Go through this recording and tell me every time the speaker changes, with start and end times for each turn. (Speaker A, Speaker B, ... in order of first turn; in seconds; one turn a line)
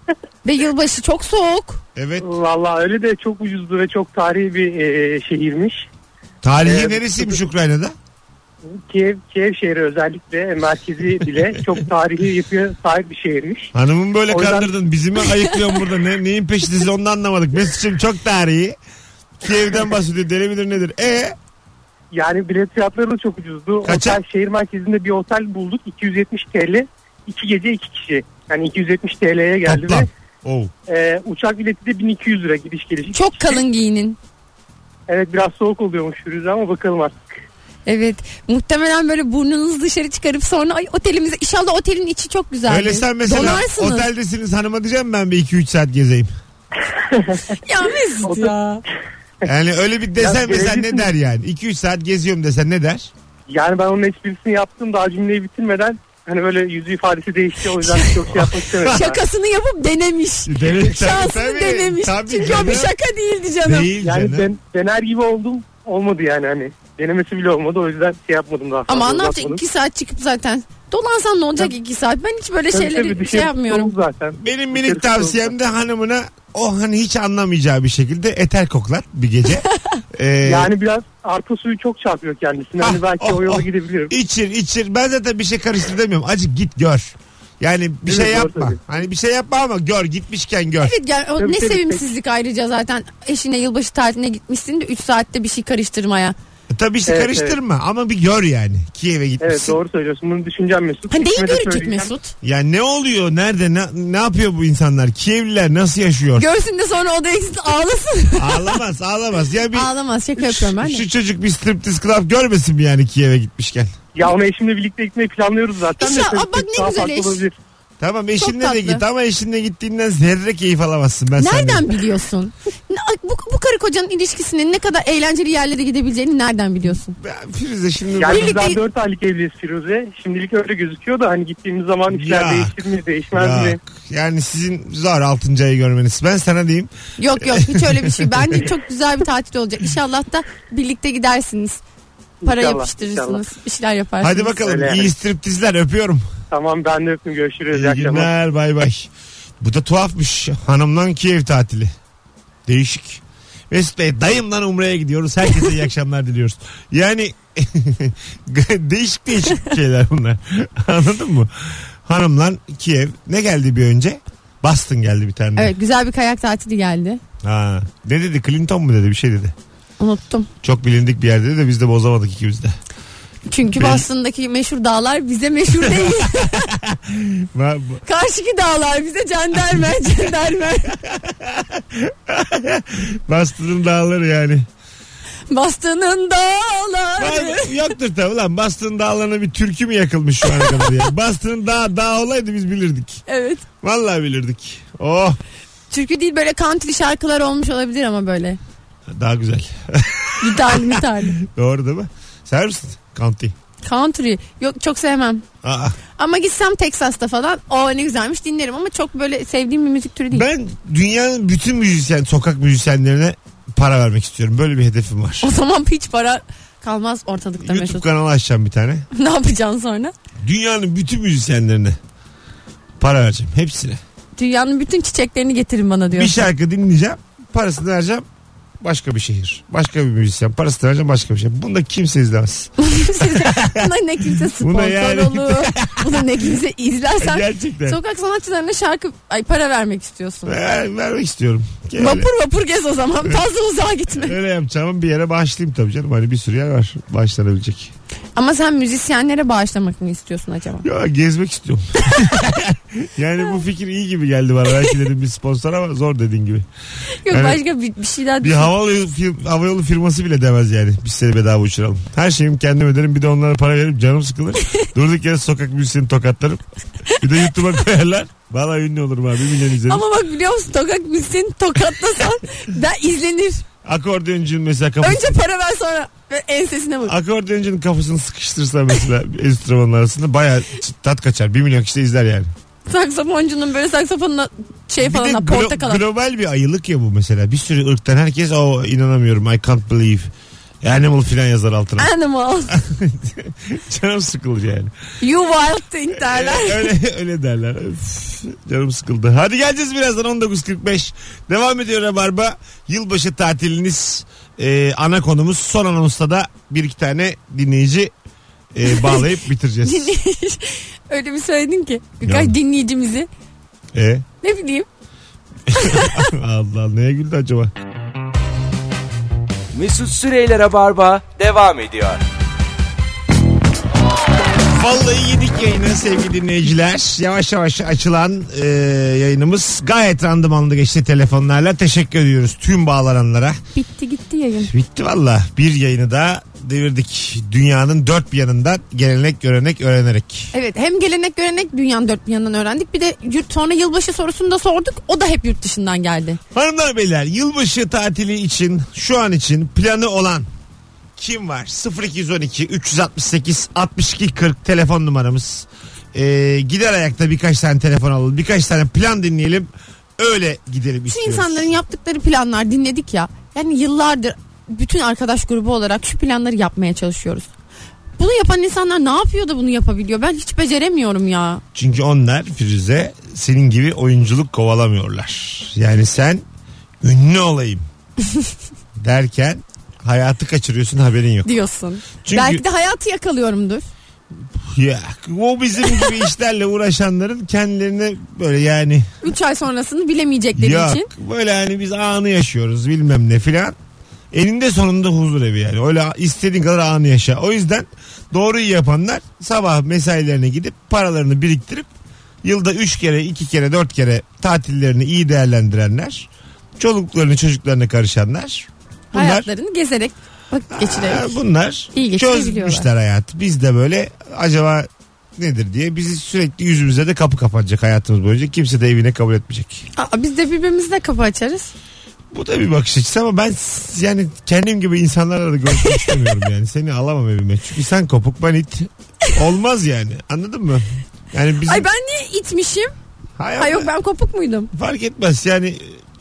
Speaker A: 0.4-1.8
Speaker B: 1.9-2.3
Speaker C: 2.2-5.9
Speaker B: 6.4-7.9
Speaker C: 6.6-7.4
Speaker C: 8.6-13.7
Speaker B: 13.7-18.8
Speaker C: 14.3-14.7
Speaker B: 19.4-21.4
Speaker C: 22.1-30.1
Speaker B: 23.8-24.2
Speaker B: 29.6-30.7
Speaker C: 30.9-33.6
Speaker A: 33.1-34.2
Speaker C: 35.1-37.3
Speaker A: 37.9-44.1
Speaker B: 42.7-46.3
Speaker C: 47.1-47.4
Speaker A: 47.6-48.8
Speaker C: 48.2-48.5
Speaker B: 49.4-53.1
Speaker C: 50.2-51.1
Speaker C: 53.5-59.2
Speaker A: 57.9-58.1
Speaker B: 58.3-59.1
Speaker A: 58.8-63.9
Speaker B: 60.5-62.9
Speaker B: 63.6-64.5
Speaker C: 64.0-69.6
Speaker A: 68.9-73.9
Speaker C: 72.7-75.5
Speaker B: 74.4-80.7
Speaker C: 80.4-84.1
Speaker B: 82.8-90.9
Speaker C: 88.0-88.8
Speaker A: 90.8-96.4
Speaker C: 91.4-92.1
Speaker B: 96.7-99.8
Speaker C: 97.1-97.6
Speaker C: 99.4-102.1
Speaker A: 101.1-102.3
Speaker B: 102.4-106.5
Speaker A: 106.4-108.8
Speaker B: 108.4-113.9
Speaker A: 109.7-111.0
Speaker C: 114.1-117.5
Speaker A: 116.0-117.4
Speaker B: 118.0-121.9
Speaker A: 118.4-119.0
Speaker A: 121.4-127.2
Speaker B: 127.2-128.7
Speaker C: 128.2-133.8
Speaker A: 128.2-128.8
Speaker B: 132.1-136.9
Speaker A: 137.2-141.8
Speaker B: 137.5-138.6
Speaker C: 142.4-143.4
Speaker A: 142.4-144.6
Speaker B: 144.2-146.3
Speaker C: 144.6-145.1
Speaker C: 146.5-148.3
Speaker B: 147.7-151.9
Speaker B: 152.7-165.7
Speaker A: 165.6-167.2
Speaker B: 167.4-169.5
Speaker A: 170.0-170.5
Speaker B: 170.6-172.8
Speaker A: 173.5-176.7
Speaker B: 173.8-174.0
Speaker B: 175.7-178.0
Speaker A: 178.0-180.9
Speaker B: 180.9-184.7
Speaker A: 185.5-187.9
Speaker B: 187.2-193.2
Speaker A: 190.5-191.0
Speaker A: 193.3-193.6
Speaker B: 193.8-195.4
Speaker A: 195.9-198.6
Speaker B: 199.1-203.5
Speaker A: 200.4-201.4
Speaker A: 203.8-205.4
Speaker B: 205.6-206.0
Speaker A: 206.2-210.5
Speaker B: 210.3-215.5
Speaker A: 215.4-218.0
Speaker B: 217.6-219.1
Speaker A: 219.1-220.1
Speaker B: 220.4-222.0
Speaker B: 223.0-224.0
Speaker A: 224.4-226.4
Speaker B: 226.1-228.2
Speaker B: 228.8-233.9
Speaker A: 232.8-240.6
Speaker B: 234.4-236.3
Speaker B: 237.2-238.0
Speaker B: 240.4-242.3
Speaker A: 242.0-244.3
Speaker B: 244.2-247.9
Speaker A: 248.4-250.8
Speaker B: 250.8-256.6
Speaker A: 257.2-258.7
Speaker B: 257.3-257.6
Speaker B: 258.4-266.6
Speaker B: 267.2-270.0
Speaker A: 269.9-273.6
Speaker B: 273.8-275.3
Speaker A: 275.0-277.1
Speaker B: 277.1-282.5
Speaker A: 282.9-286.0
Speaker B: 285.0-290.3
Speaker B: 290.8-292.1
Speaker A: 292.0-292.7
Speaker B: 292.7-294.9
Speaker A: 295.2-296.9
Speaker B: 296.1-308.1
Speaker B: 308.7-310.1
Speaker A: 308.9-309.3
Speaker A: 309.8-313.3
Speaker B: 312.2-312.5
Speaker B: 313.9-314.2
Speaker A: 314.4-314.9
Speaker B: 315.7-317.7
Speaker A: 315.8-316.2
Speaker D: 319.7-322.2
Speaker B: 324.7-333.6
Speaker A: 333.7-334.7
Speaker B: 334.6-340.5
Speaker A: 340.5-346.4
Speaker B: 346.5-350.5
Speaker B: 351.1-361.7
Speaker A: 361.1-367.5
Speaker A: 368.2-371.6
Speaker B: 371.7-376.4
Speaker B: 377.0-377.8
Speaker B: 379.0-381.5
Speaker A: 381.4-383.9
Speaker B: 382.2-382.6
Speaker B: 384.5-389.1
Speaker A: 389.2-391.1
Speaker B: 390.6-393.8
Speaker B: 394.3-401.9
Speaker B: 402.4-409.5
Speaker A: 409.1-411.4
Speaker B: 410.7-419.9
Speaker A: 411.9-412.9
Speaker A: 419.9-421.7
Speaker B: 422.3-431.9
Speaker A: 425.8-426.4
Speaker A: 431.6-432.9
Speaker B: 433.4-433.9
Speaker A: 433.6-434.7
Speaker B: 434.7-436.0